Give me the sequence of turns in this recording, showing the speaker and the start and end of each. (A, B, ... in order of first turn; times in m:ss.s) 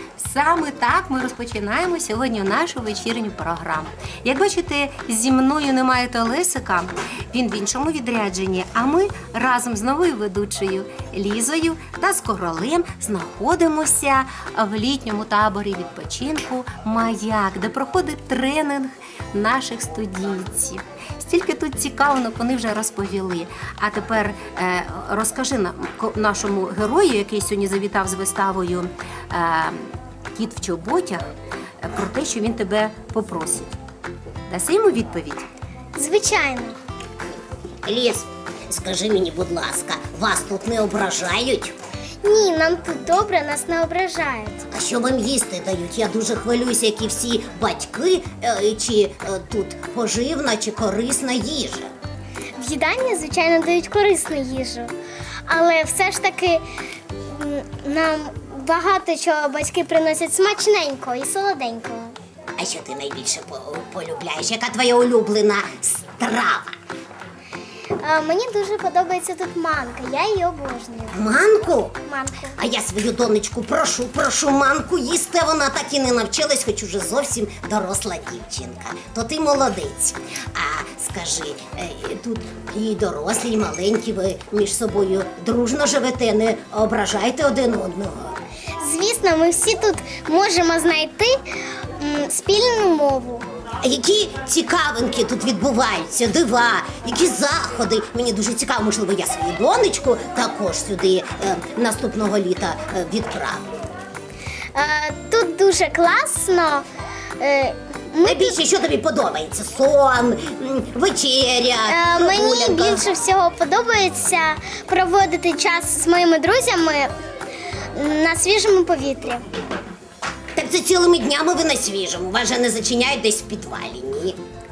0:00.2-0:31.2 A
0:31.8-0:33.7 A
0:34.5-0:35.5 A
0:36.0-0:36.8 B
0:37.8-0:41.7 C
0:42.2-0:44.7 B
0:44.7-0:51.9 C
0:52.6-0:54.9 B
0:55.5-0:56.6 B
0:57.3-1:02.1 B
1:02.6-1:06.7 C
1:08.0-1:12.6 B
1:11.1-1:12.0 C
1:12.6-1:28.4 C
1:28.8-1:31.4 B
1:32.0-1:33.4 B
1:33.8-1:43.6 C
1:44.7-1:46.8 B
1:47.4-1:48.6 B
1:48.2-1:53.0 C
1:51.8-1:57.1 B
1:58.0-1:59.4 B
2:00.6-2:04.4 C